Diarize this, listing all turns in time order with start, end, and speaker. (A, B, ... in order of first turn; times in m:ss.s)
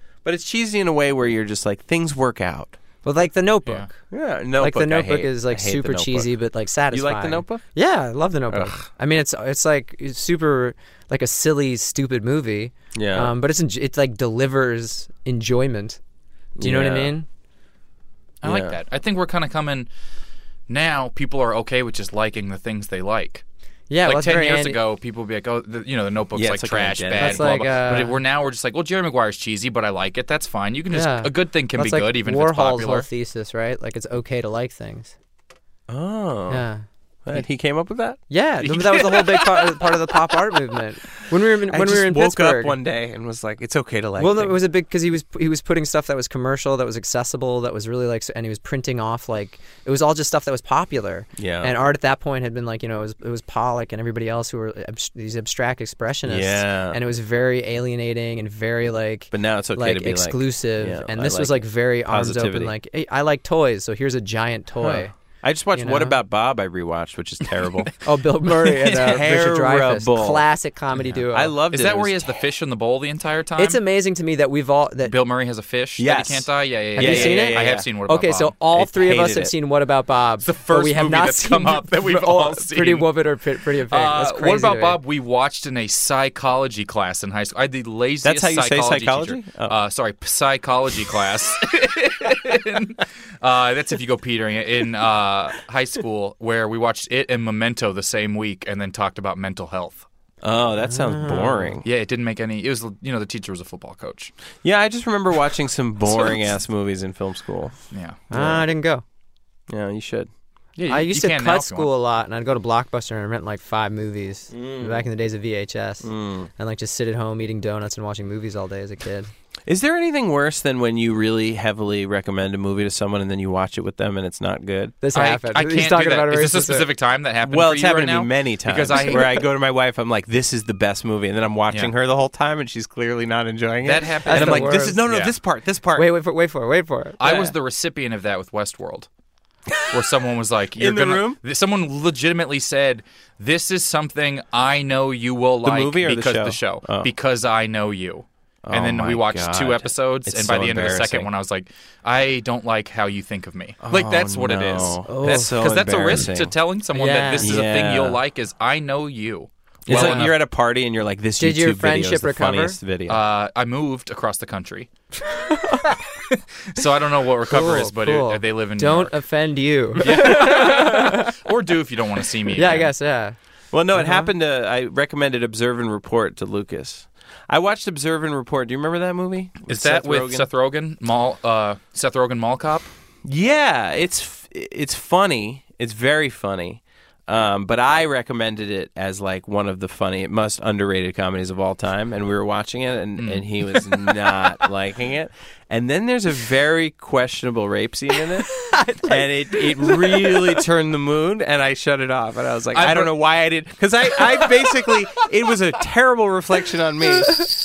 0:00.2-0:02.8 A
0:03.0-0:04.0 B
0:03.6-0:03.9 C
0:04.1-0:06.3 A
0:04.6-0:16.0 B
0:06.9-0:07.6 A
0:08.5-0:08.9 A
0:12.9-0:13.3 A
0:16.6-0:17.1 A
0:16.6-0:17.2 B
0:18.4-0:19.9 C
0:18.4-0:18.8 A
0:20.7-0:23.4 C
0:23.9-0:24.8 B
0:24.0-0:33.1 C
0:26.3-0:27.9 A
0:27.2-0:28.2 B
0:30.9-0:35.1 B
0:35.9-0:36.6 A
0:36.5-0:37.4 B
0:37.2-0:38.2 A
0:38.3-0:42.8 B
0:38.6-0:39.4 C
0:39.4-0:39.8 A
0:41.7-0:44.6 A
0:44.2-1:05.1 B
0:51.4-0:51.7 A
0:56.2-0:57.0 A
0:59.3-1:02.7 A
1:04.8-1:07.9 A
1:05.7-1:06.2 B
1:08.0-1:11.5 B
1:08.6-1:09.2 C
1:08.9-1:10.5 A
1:11.3-1:12.4 A
1:11.7-1:13.8 C
1:13.6-1:15.1 B
1:15.0-1:18.5 C
1:16.0-1:17.9 A
1:17.0-1:25.0 B
1:18.7-1:19.5 A
1:20.4-1:23.1 C
1:23.8-1:40.1 C
1:28.2-1:29.8 A
1:40.4-1:41.9 A
1:40.8-1:41.7 B
1:41.8-1:44.3 C
1:44.6-1:47.8 A
1:47.9-1:48.2 C
1:48.3-1:49.0 B
1:48.3-1:48.6 A
1:49.7-1:50.3 A
1:50.8-1:51.9 C
1:50.9-1:59.3 B
1:54.5-1:55.0 A
1:56.0-1:56.5 A
1:59.7-2:05.0 A
2:05.0-2:06.9 B
2:05.1-2:09.5 C
2:07.4-2:16.1 A
2:13.8-2:15.4 C
2:14.2-2:15.0 B
2:15.9-2:17.2 B
2:17.2-2:19.1 C
2:17.2-2:17.5 A
2:19.9-2:40.4 C
2:20.8-2:21.4 A
2:25.6-2:27.1 A
2:28.6-2:31.3 A
2:33.8-2:36.5 A
2:35.1-2:35.5 B
2:36.9-2:37.5 B
2:37.4-2:38.2 A
2:39.8-2:43.2 A
2:39.9-2:40.3 B
2:41.4-2:42.8 B
2:43.1-2:44.9 C
2:45.3-2:46.0 B
2:46.3-2:49.1 C
2:47.5-2:51.3 B
2:50.0-2:52.9 C
2:52.5-2:53.3 B
2:53.7-3:00.5 A
2:53.9-2:54.3 B
2:59.7-3:02.9 C
3:03.2-3:27.5 A
3:13.2-3:13.9 C
3:18.7-3:20.6 B
3:22.7-3:23.2 C
3:24.2-3:24.7 C